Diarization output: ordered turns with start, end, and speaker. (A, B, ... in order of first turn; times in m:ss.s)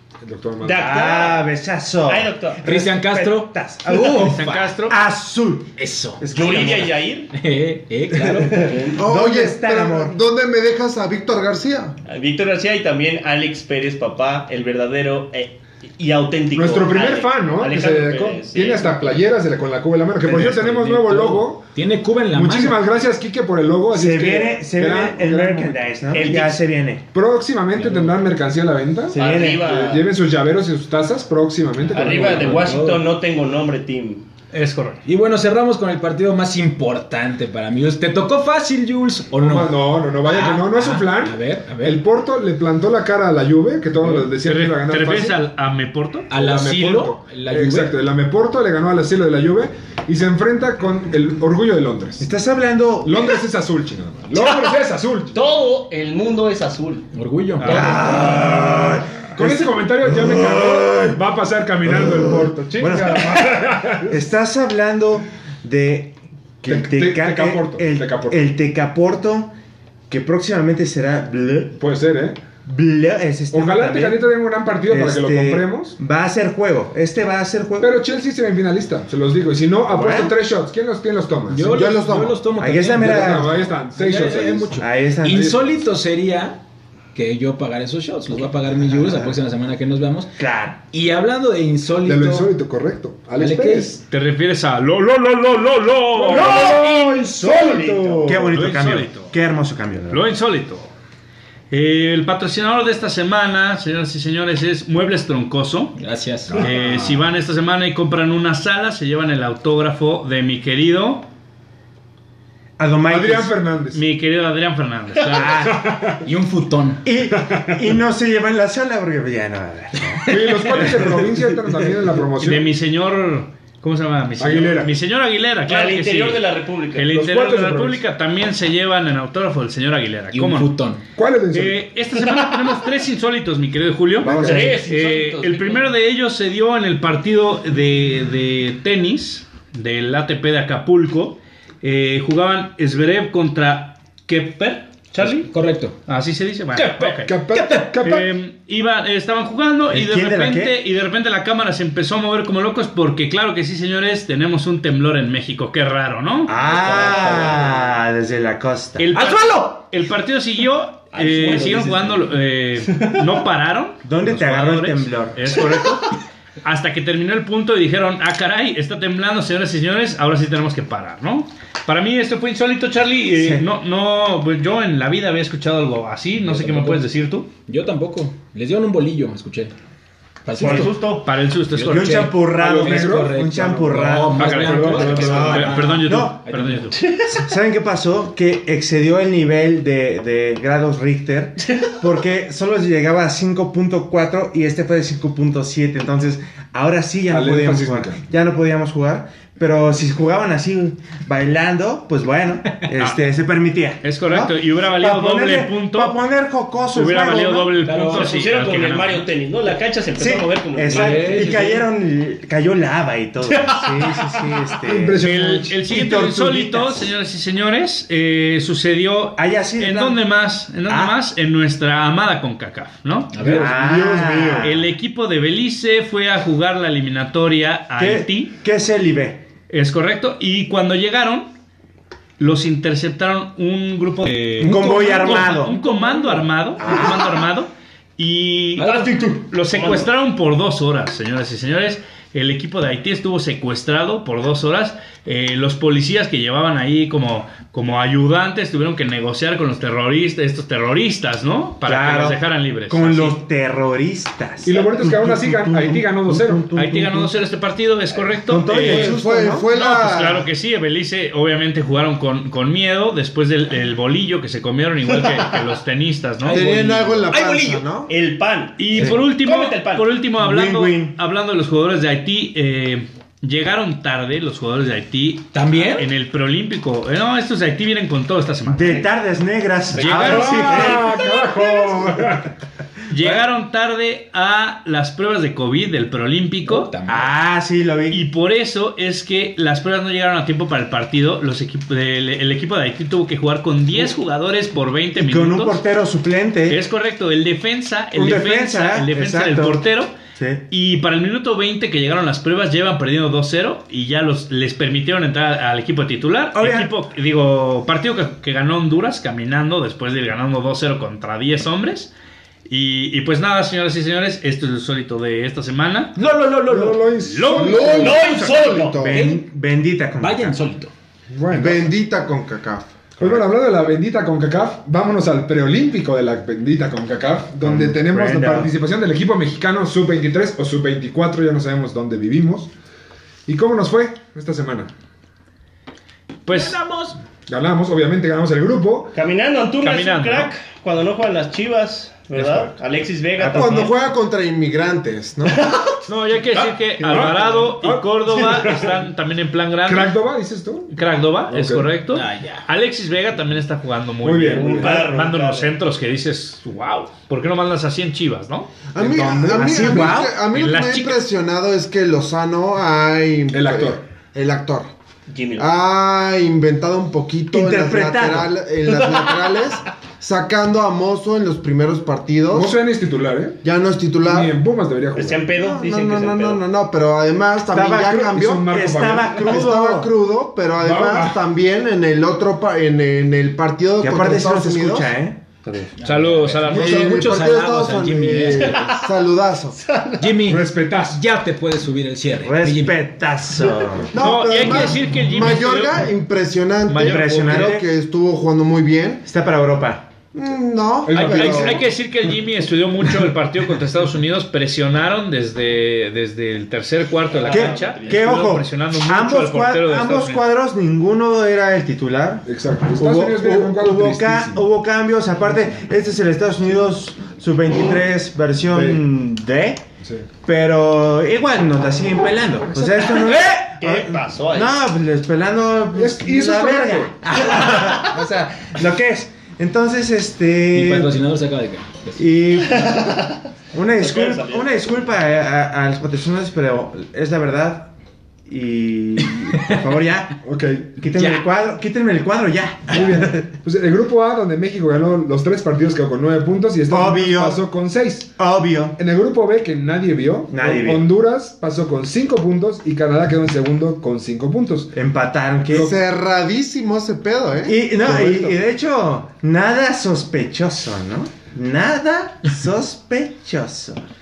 0:00.2-0:00.9 A
0:00.6-0:01.5 B
0:00.7-0:07.0 C
0:02.1-0:02.6 B
0:02.6-0:04.8 D
0:04.0-0:05.0 E
0:05.8-0:06.6 D
0:06.3-0:07.3 B
0:07.3-0:08.8 D
0:08.4-0:09.0 B
0:09.0-0:10.2 C
0:09.0-0:12.0 F
0:12.1-0:19.1 B
0:16.5-0:21.6 A
0:20.2-0:22.8 D
0:22.3-0:25.8 A
0:23.9-0:27.0 C
0:26.1-0:26.6 B
0:27.1-0:32.7 A
0:27.7-0:28.2 D
0:29.1-0:29.7 C
0:29.1-0:30.0 B
0:31.9-0:34.2 B
0:32.0-0:33.0 D
0:34.5-0:35.0 E
0:35.0-0:42.0 D
0:39.4-0:45.4 A
0:44.0-0:44.2 D
0:44.4-0:46.3 E
0:46.3-0:48.0 D
0:46.3-0:52.3 A
0:52.2-0:53.3 C
0:53.0-0:55.4 A
0:54.4-0:54.7 B
0:55.3-0:57.0 B
0:57.1-0:58.5 D
0:57.6-0:58.1 E
0:57.6-1:01.2 C
0:59.4-1:04.2 A
1:01.8-1:09.5 C
1:06.6-1:08.4 A
1:10.1-1:11.8 C
1:11.8-1:12.4 A
1:12.6-1:14.2 C
1:13.5-1:16.0 A
1:14.9-1:17.9 C
1:17.8-1:21.8 A
1:19.9-1:20.3 C
1:21.5-1:26.6 D
1:21.7-1:22.5 F
1:22.5-1:23.6 C
1:22.9-1:24.8 A
1:24.8-1:25.6 C
1:25.3-1:25.6 A
1:27.1-1:30.3 D
1:29.0-1:29.3 C
1:30.4-1:30.8 C
1:30.8-1:32.5 D
1:32.0-1:34.0 A
1:33.4-1:34.0 D
1:34.1-1:36.7 E
1:36.2-1:38.5 A
1:36.3-1:38.4 B
1:38.2-1:40.2 C
1:38.5-1:39.3 E
1:40.1-1:40.9 E
1:41.7-1:45.9 E
1:46.0-1:46.7 D
1:46.5-1:47.2 A
1:46.6-1:51.3 E
1:52.8-1:53.5 C
1:53.1-1:54.0 A
1:53.9-1:55.7 E
1:55.3-1:55.9 C
1:55.7-1:56.2 A
1:56.2-1:57.0 D
1:57.0-2:01.2 C
1:57.4-1:58.0 A
2:00.3-2:02.7 A
2:02.4-2:10.7 E
2:04.4-2:04.9 A
2:05.6-2:07.2 B
2:07.1-2:08.0 A
2:10.3-2:11.0 D
2:11.2-2:11.8 A
2:11.5-2:25.5 E
2:12.3-2:12.8 B
2:14.2-2:14.8 A
2:14.2-2:15.9 B
2:25.4-2:26.0 D
2:26.1-2:27.4 E
2:26.7-2:28.0 D
2:27.2-2:28.3 A
2:28.0-2:36.6 E
2:29.9-2:30.8 C
2:36.5-2:39.1 C
2:36.7-2:37.4 D
2:39.0-2:57.5 E
2:39.1-2:39.8 D
2:41.1-2:42.2 B
2:41.4-2:42.0 D
2:42.9-2:43.2 B
2:44.0-2:45.6 C
2:45.6-2:45.9 B
2:53.3-2:53.6 C
2:56.4-2:57.1 D
2:57.7-2:59.7 D
3:00.4-3:01.0 D
3:00.6-3:01.3 B
3:00.6-3:00.9 C
3:01.1-3:02.4 E
3:01.7-3:07.0 D
3:01.8-3:06.4 C
3:02.6-3:03.5 A
3:04.3-3:07.0 E
3:04.4-3:05.6 A
3:06.9-3:07.4 B
3:07.3-3:27.8 C
3:11.7-3:12.0 B
3:17.3-3:18.2 A
3:24.0-3:26.2 E
3:26.9-3:29.3 E
3:27.8-3:28.3 D
3:28.1-3:31.8 B
3:30.2-3:35.2 C
3:30.9-3:31.8 D
3:33.5-3:34.5 B
3:34.8-3:35.8 A
3:35.2-3:43.4 E
3:35.9-3:37.1 C
3:39.4-3:40.2 C
3:40.9-3:41.2 C
3:43.3-3:43.8 D
3:43.4-3:44.7 A
3:43.5-3:44.9 C
3:44.6-3:48.5 E
3:48.0-3:49.4 C
3:49.7-3:51.5 E
3:52.4-4:13.4 E
3:54.6-3:55.8 C
3:54.6-3:57.0 D
3:56.8-3:57.3 C
3:58.8-3:59.2 D
3:58.8-4:00.1 B
4:11.8-4:17.3 C
4:14.6-4:16.7 A
4:16.7-4:19.1 E
4:18.4-4:19.7 C
4:18.7-4:20.5 F
4:19.7-4:26.9 E
4:25.1-4:25.5 B
4:26.4-4:27.8 D
4:26.5-4:28.1 F
4:28.1-4:30.1 B
4:28.8-4:39.0 E
4:28.9-4:29.3 C
4:30.4-4:31.2 C
4:35.5-4:36.1 D
4:38.6-4:41.1 C
4:39.9-4:41.0 B
4:40.0-4:41.0 E
4:40.1-4:42.5 A
4:43.1-4:46.9 E
4:46.6-4:47.3 D
4:47.0-4:48.2 C
4:48.1-4:55.8 E
4:55.2-4:56.8 C
4:56.7-5:00.2 E
4:58.1-4:59.8 C
5:00.4-5:00.6 C
5:00.7-5:12.1 E
5:06.5-5:06.9 C
5:12.7-5:16.1 E
5:16.2-5:17.0 D
5:16.6-5:18.2 A
5:17.2-5:18.6 E
5:17.5-5:19.2 F
5:17.8-5:19.0 B
5:19.0-5:20.6 C
5:19.1-5:19.5 D
5:20.2-5:20.9 D
5:21.3-5:21.9 A
5:21.5-5:23.4 F
5:23.2-5:32.7 A
5:27.6-5:28.7 C
5:33.4-5:34.9 A
5:36.4-5:36.8 E
5:36.5-5:37.2 D
5:37.5-5:39.1 A
5:39.1-5:44.0 B
5:39.8-5:40.5 E
5:42.4-5:42.7 E
5:43.4-5:45.6 F
5:45.4-5:46.0 B
5:46.1-5:50.2 E
5:46.5-5:49.0 A
5:49.8-5:50.9 A
5:50.9-5:58.7 E
5:51.5-5:51.9 A
5:52.1-5:52.7 D
5:54.2-5:55.1 A
5:54.4-5:55.7 B
5:58.9-6:04.9 F
5:59.0-6:00.2 A
5:59.5-6:00.4 C
6:00.5-6:01.2 E
6:03.5-6:04.0 A
6:05.3-6:05.7 B
6:05.6-6:12.7 F
6:07.5-6:08.5 C
6:08.9-6:09.6 B
6:12.5-6:13.6 A
6:13.6-6:14.5 F
6:14.2-6:15.5 A
6:15.1-6:16.6 B
6:15.6-6:18.7 F
6:17.7-6:20.1 C
6:18.0-6:19.5 A
6:19.3-6:25.1 F
6:20.8-6:21.4 A
6:24.0-6:25.9 C
6:26.0-6:28.8 D
6:26.0-6:27.4 E
6:26.7-6:29.8 F
6:28.6-6:29.0 B
6:29.8-6:30.4 B
6:30.2-6:33.0 D
6:30.4-6:31.2 A
6:32.4-6:34.1 C
6:34.1-6:39.2 F
6:34.2-6:36.0 E
6:36.9-6:37.7 E
6:37.0-6:37.9 C
6:39.2-6:40.1 C
6:40.3-6:41.8 F
6:41.0-6:41.8 A
6:41.1-6:50.4 E
6:47.2-6:48.4 B
6:47.5-6:59.8 C
6:52.4-6:54.6 A
6:58.7-6:59.0 A
7:00.0-7:00.2 A
7:00.4-7:11.2 C
7:03.7-7:04.8 B
7:05.9-7:07.2 A
7:10.7-7:12.2 D
7:12.2-7:13.2 C
7:12.6-7:13.4 B
7:13.7-7:17.9 C
7:14.0-7:14.8 B
7:18.5-7:20.4 C
7:19.5-7:19.8 D
7:20.4-7:20.9 A
7:21.0-7:23.5 C
7:21.1-7:21.4 D
7:22.9-7:28.3 A
7:26.9-7:27.6 C
7:28.4-7:29.0 C
7:29.0-7:34.9 A
7:30.5-7:31.1 C
7:34.9-7:35.9 C
7:35.7-7:35.9 A
7:35.7-7:37.8 F
7:37.6-7:44.0 C
7:38.0-7:38.6 A